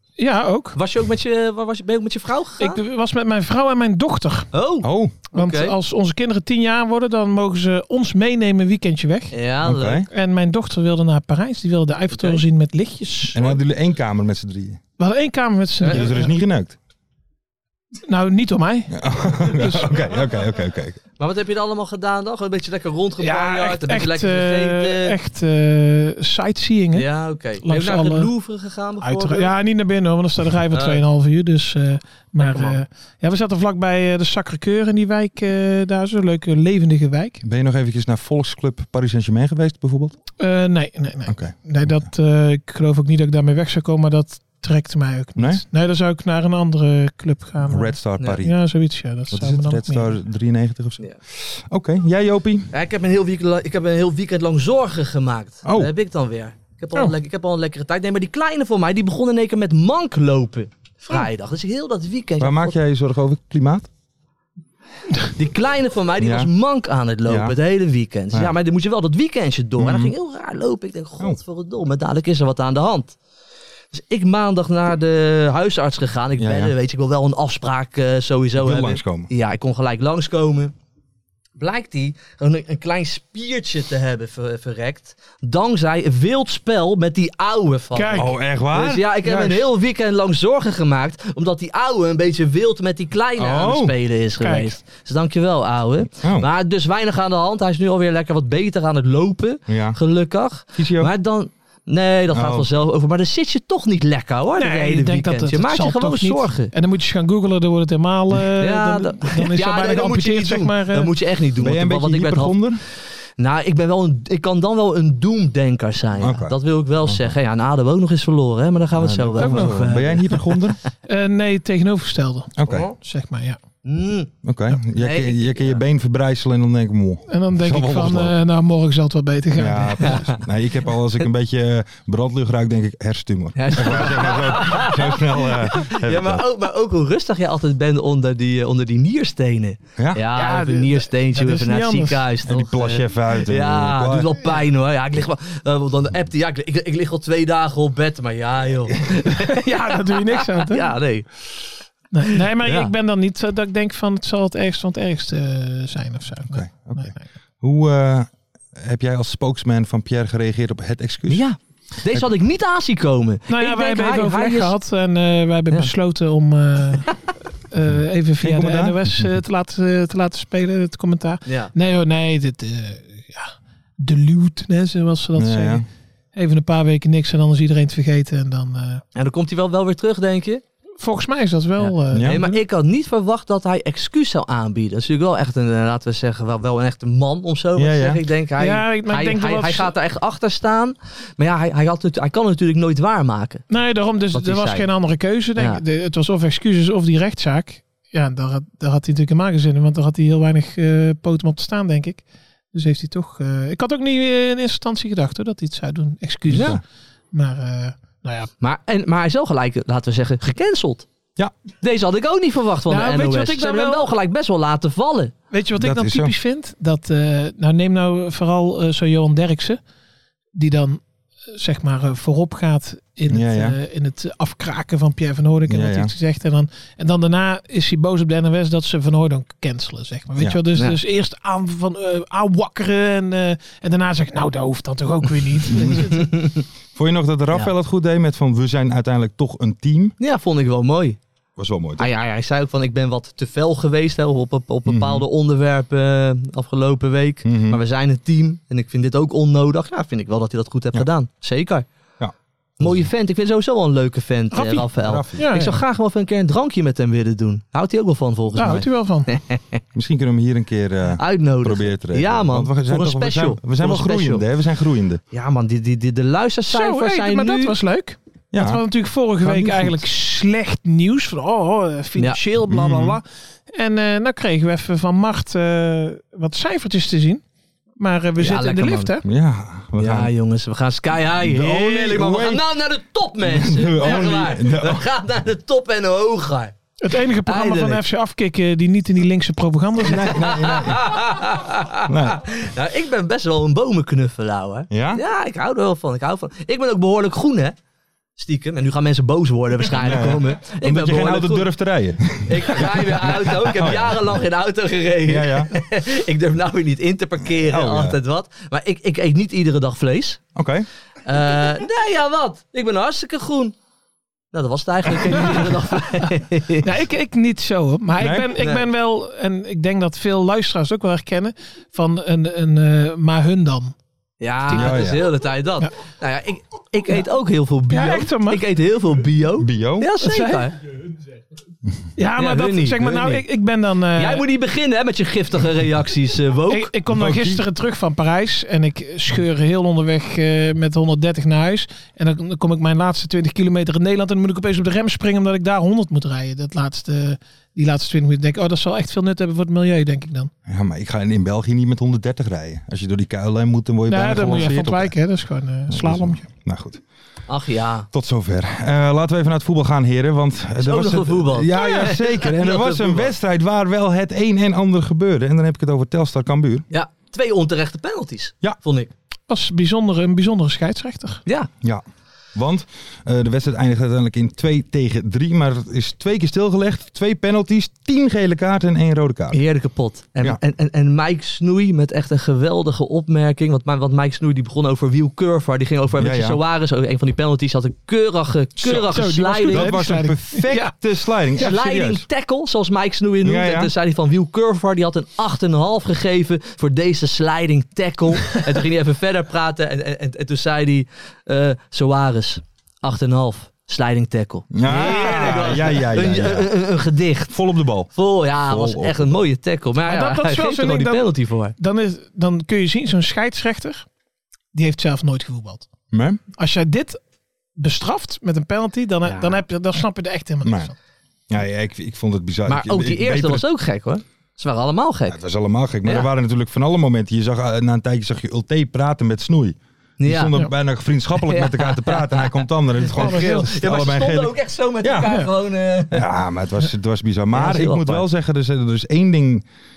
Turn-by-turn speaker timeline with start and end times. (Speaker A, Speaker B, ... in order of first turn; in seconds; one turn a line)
Speaker A: 0.2-0.8
Speaker B: 0.7-2.8
Speaker A: 2.6-4.5
Speaker B: 4.5-5.7
Speaker C: 4.8-5.1
Speaker A: 5.3-9.3
Speaker B: 9.3-10.0
Speaker C: 9.6-10.1
Speaker A: 10.1-13.4
Speaker B: 12.1-12.4
Speaker C: 13.3-14.8
Speaker A: 15.0-16.3
Speaker B: 15.8-16.1
Speaker C: 15.9-16.8
Speaker A: 18.0-20.0
Speaker C: 18.9-21.0
Speaker B: 21.2-25.2
Speaker A: 23.2-27.1
Speaker B: 26.9-29.5
Speaker A: 27.6-28.3
Speaker A: 29.0-37.4
Speaker B: 30.7-31.0
Speaker B: 32.4-32.8
Speaker C: 37.4-40.1
Speaker A: 40.4-50.2
Speaker C: 41.2-41.5
Speaker C: 45.4-45.6
Speaker C: 47.6-48.5
Speaker C: 49.3-52.7
Speaker B: 52.7-62.8
Speaker C: 55.6-55.9
Speaker C: 62.4-63.9
Speaker B: 65.3-73.2
Speaker C: 66.2-66.5
Speaker C: 67.3-67.5
Speaker C: 69.8-70.1
Speaker B: 73.9-80.7
Speaker C: 76.4-76.7
Speaker C: 78.6-79.3
Speaker B: 81.6-106.7
Speaker A: 87.9-88.3
Speaker C: 88.1-89.1
Speaker A: 89.3-89.5
Speaker C: 93.4-93.9
Speaker A: 94.4-94.8
Speaker C: 96.2-96.5
Speaker C: 99.7-100.0
Speaker C: 100.8-101.1
Speaker C: 102.3-102.7
Speaker A: 104.6-111.1
Speaker B: 108.6-112.6
Speaker C: 111.6-112.8
Speaker B: 113.4-120.5
Speaker C: 116.2-117.3
Speaker C: 119.0-120.8
Speaker A: 119.4-119.9
Speaker A: 121.0-123.6
Speaker C: 122.5-122.8
Speaker B: 122.7-123.0
Speaker B: 123.8-125.8
Speaker C: 124.4-128.3
Speaker A: 127.3-130.2
Speaker C: 129.6-136.4
Speaker B: 130.1-130.4
Speaker B: 133.6-151.3
Speaker C: 140.0-140.2
Speaker A: 140.3-142.2
Speaker C: 142.4-144.3
Speaker A: 149.3-150.9
Speaker A: 152.1-157.2
Speaker B: 152.6-152.9
Speaker C: 156.5-161.4
Speaker B: 161.3-164.7
Speaker A: 163.5-167.2
Speaker A: 167.7-179.0
Speaker C: 168.4-169.3
Speaker B: 171.4-171.7
Speaker C: 175.4-175.8
Speaker B: 179.1-180.6
Speaker A: 181.0-182.6
Speaker B: 181.8-193.6
Speaker C: 182.1-182.4
Speaker C: 187.8-188.2
Speaker A: 188.6-189.9
Speaker A: 193.7-208.5
Speaker B: 194.3-194.9
Speaker B: 195.6-195.8
Speaker C: 206.5-206.8
Speaker B: 206.5-206.8
Speaker B: 208.6-211.1
Speaker B: 211.8-215.3
Speaker A: 212.9-214.1
Speaker A: 215.5-219.8
Speaker C: 215.8-216.3
Speaker A: 220.5-221.0
Speaker A: 221.5-236.3
Speaker C: 223.3-223.8
Speaker C: 225.7-226.1
Speaker C: 235.7-236.1
Speaker B: 236.2-236.6
Speaker C: 236.9-240.2
Speaker B: 240.2-241.2
Speaker C: 241.6-242.1
Speaker B: 242.0-251.8
Speaker C: 244.8-245.2
Speaker C: 247.4-247.8
Speaker C: 252.2-253.1
Speaker B: 252.8-259.8
Speaker A: 254.5-255.8
Speaker C: 255.0-255.4
Speaker A: 258.6-259.3
Speaker C: 259.9-265.2
Speaker B: 261.2-264.4
Speaker B: 265.3-267.8
Speaker A: 266.7-277.4
Speaker C: 268.5-268.8
Speaker B: 269.4-269.9
Speaker C: 272.7-273.2
Speaker A: 278.0-279.2
Speaker B: 278.4-279.1
Speaker C: 279.2-280.3
Speaker B: 280.0-286.7
Speaker C: 281.4-282.6
Speaker C: 283.4-285.0
Speaker A: 287.0-290.4
Speaker B: 287.4-288.0
Speaker C: 290.0-291.3
Speaker B: 290.2-297.8
Speaker C: 292.0-292.4
Speaker C: 294.9-295.2
Speaker B: 298.4-301.7
Speaker C: 300.0-304.3
Speaker B: 302.4-310.4
Speaker C: 305.2-305.7
Speaker C: 307.5-308.2
Speaker C: 310.6-310.9
Speaker B: 311.2-313.8
Speaker B: 314.5-316.9
Speaker A: 316.8-323.9
Speaker C: 318.2-318.5
Speaker B: 318.6-318.9
Speaker B: 324.4-330.8
Speaker C: 324.7-325.2
Speaker A: 327.9-328.6
Speaker C: 329.6-330.1
Speaker A: 330.2-330.7
Speaker A: 332.2-334.4
Speaker B: 332.4-333.4
Speaker B: 334.1-336.9
Speaker A: 336.7-350.5
Speaker C: 337.1-337.6
Speaker C: 350.6-355.1
Speaker A: 354.1-356.5
Speaker C: 355.9-357.0
Speaker B: 357.5-358.1
Speaker C: 358.1-366.9
Speaker B: 360.8-363.3
Speaker B: 366.9-369.1
Speaker A: 369.5-371.4
Speaker C: 372.5-379.6
Speaker B: 379.5-390.0
Speaker C: 386.2-386.6
Speaker C: 388.8-389.1
Speaker A: 388.9-391.0
Speaker C: 389.7-392.2
Speaker B: 391.6-407.6
Speaker C: 393.4-393.9
Speaker C: 404.7-406.7
Speaker C: 407.5-408.1
Speaker B: 408.1-411.7
Speaker C: 408.6-409.4
Speaker A: 410.0-414.1
Speaker A: 414.7-415.9
Speaker C: 416.1-416.4
Speaker A: 416.6-417.2
Speaker A: 417.8-420.9
Speaker B: 419.2-419.6
Speaker C: 420.6-420.9
Speaker C: 421.5-423.6
Speaker B: 422.7-425.4
Speaker C: 425.3-435.4
Speaker B: 430.2-430.5
Speaker B: 431.5-436.2
Speaker A: 433.1-433.7
Speaker C: 436.1-439.6
Speaker B: 437.5-438.2